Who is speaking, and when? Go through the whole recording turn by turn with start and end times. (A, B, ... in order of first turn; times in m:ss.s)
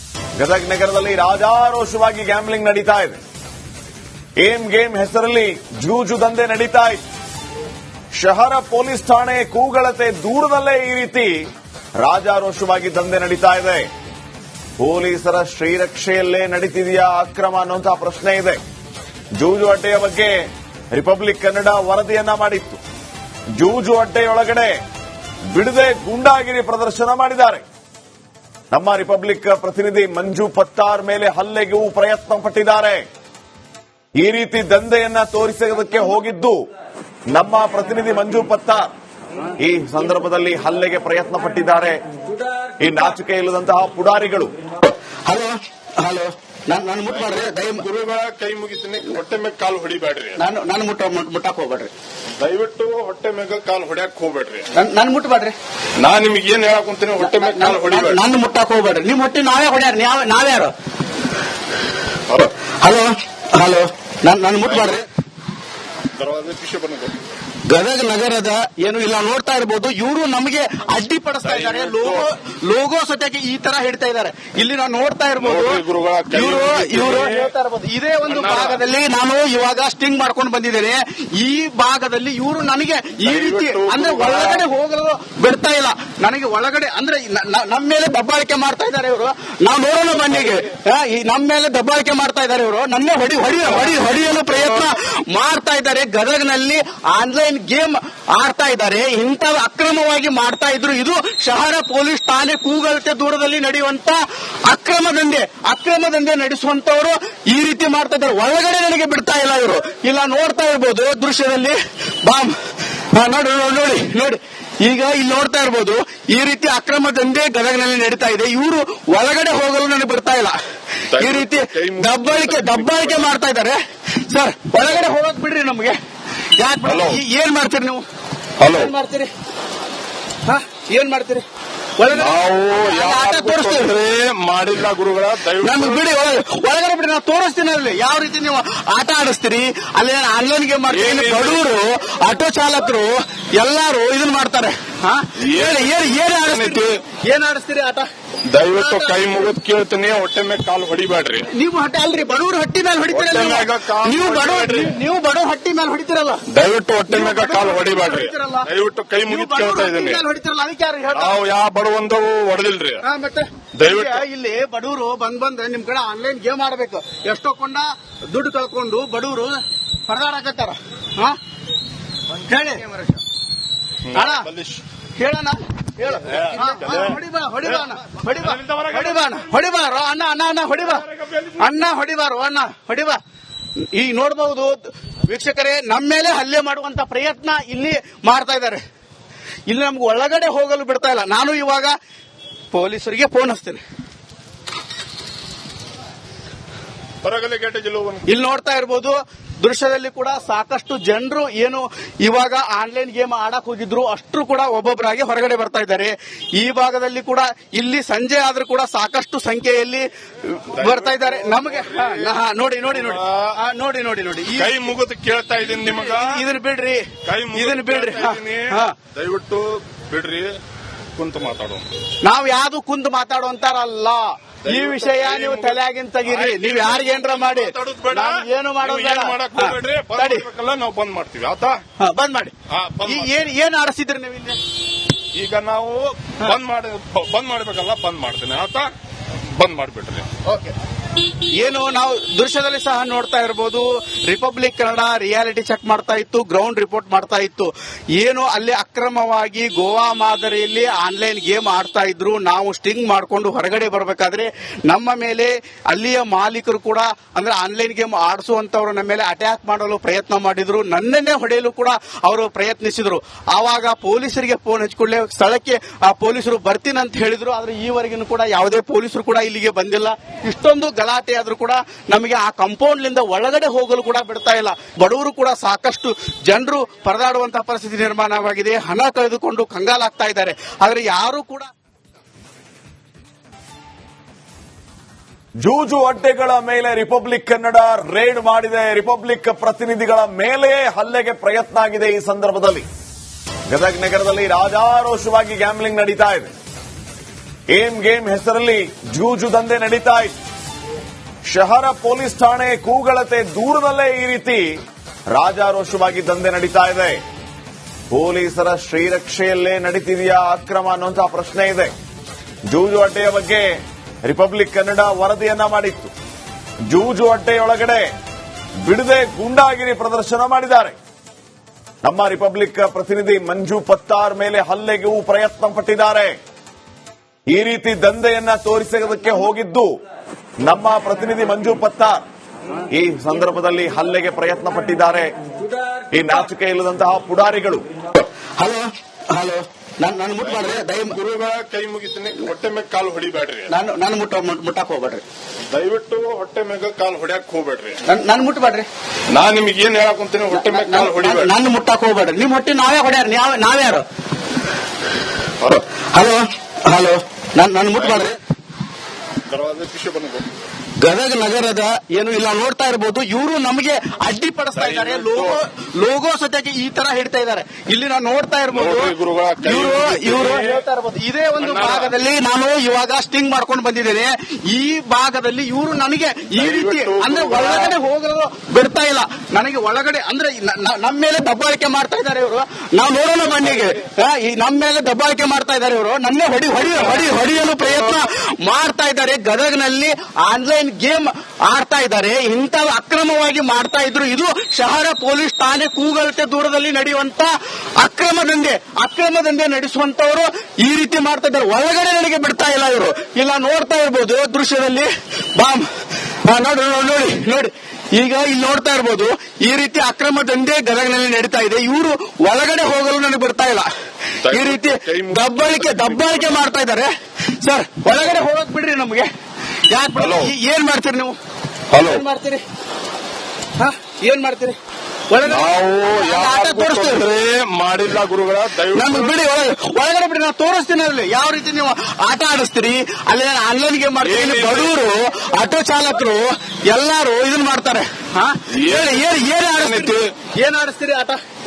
0:00.4-0:03.2 A
0:04.4-0:07.0 A
0:08.1-0:11.4 A
0:12.0-0:13.9 A
0:14.8-0:18.6 A
0:19.4-0:22.8 A
0:23.6-0:24.8 A
0:25.5-0:27.6 A
0:28.7-0:33.0 A
0:34.2-0:36.7 A
0:37.3-0:38.9 A
0:39.6-0:42.0 A
0:42.8-0:44.5 A
0:45.2-0:47.8 B
0:47.1-0:50.4 C
0:50.4-0:51.9 B
0:52.4-0:54.7 C
0:54.7-0:55.6 B
0:56.0-0:58.2 C
0:57.2-1:00.7 B
1:02.8-1:05.0 B
1:04.6-1:05.0 C
1:06.1-1:07.1 C
1:07.6-1:52.6 B
1:11.4-1:12.3 C
1:15.4-1:17.5 C
1:18.2-1:18.8 C
1:23.2-1:24.6 C
1:53.1-2:00.6 B
2:01.1-2:03.2 C
2:01.2-2:06.0 B
2:06.6-2:08.0 B
2:06.8-2:07.2 C
2:08.6-2:08.9 C
2:08.7-2:09.3 B
2:10.4-2:11.4 B
2:12.0-2:13.9 B
2:12.1-2:16.1 C
2:15.6-2:28.1 B
2:20.9-2:21.6 C
2:25.4-2:26.9 C
2:28.5-2:31.5 C
2:28.6-2:29.2 B
2:31.5-2:36.4 B
2:33.1-2:35.0 C
2:36.5-2:40.2 C
2:37.1-2:38.7 B
2:39.3-2:41.4 B
2:41.1-2:43.0 C
2:43.0-2:51.4 B
2:43.8-2:44.2 C
2:52.4-2:53.2 B
2:54.0-2:54.8 C
2:54.1-2:54.5 B
2:55.2-3:03.2 B
2:56.3-2:57.1 C
2:58.4-2:59.1 C
3:03.8-3:08.8 B
3:09.7-3:12.0 B
3:12.7-3:13.8 B
3:17.2-3:18.3 C
3:18.2-3:34.8 B
3:30.7-3:32.3 C
3:32.9-3:33.6 C
3:34.5-3:36.4 C
3:35.8-3:39.0 B
3:37.2-3:40.6 C
3:41.1-3:41.9 C
3:42.2-3:50.4 B
3:44.6-3:51.8 C
3:52.0-3:54.6 B
3:52.7-3:53.4 C
3:55.3-3:58.9 C
3:59.5-4:00.3 C
4:00.4-4:00.7 B
4:01.6-4:41.7 B
4:45.6-4:52.8 A
4:53.7-4:56.5 A
4:57.7-5:00.4 A
5:01.5-5:04.8 A
5:05.3-5:07.2 A
5:08.1-5:11.9 A
5:12.7-5:16.1 A
5:16.9-5:18.1 A
5:18.8-5:20.9 A
5:22.0-5:26.4 A
5:27.5-5:30.0 A
5:30.6-5:32.2 A
5:32.9-5:35.3 A
5:36.1-5:37.8 A
5:38.2-5:41.2 B
5:40.4-5:43.7 C
5:43.7-5:45.2 B
5:45.7-5:48.0 C
5:48.0-5:48.9 B
5:49.3-5:51.5 C
5:50.5-5:54.0 B
5:56.1-5:58.4 B
5:58.0-5:58.3 C
5:59.5-6:00.5 C
6:01.0-6:09.1 B
6:04.8-6:05.6 C
6:08.7-6:10.8 C
6:09.6-6:45.9 B
6:11.6-6:12.1 C
6:16.5-6:17.9 C
6:46.4-6:53.9 B
6:54.4-6:56.6 C
6:54.5-6:57.1 B
6:57.6-6:59.3 B
6:59.9-7:01.4 B
7:00.2-7:00.5 C
7:01.9-7:02.2 C
7:02.0-7:02.6 B
7:03.8-7:04.8 B
7:05.3-7:07.2 B
7:05.4-7:09.4 C
7:08.9-7:21.4 B
7:14.2-7:14.9 C
7:18.7-7:20.3 C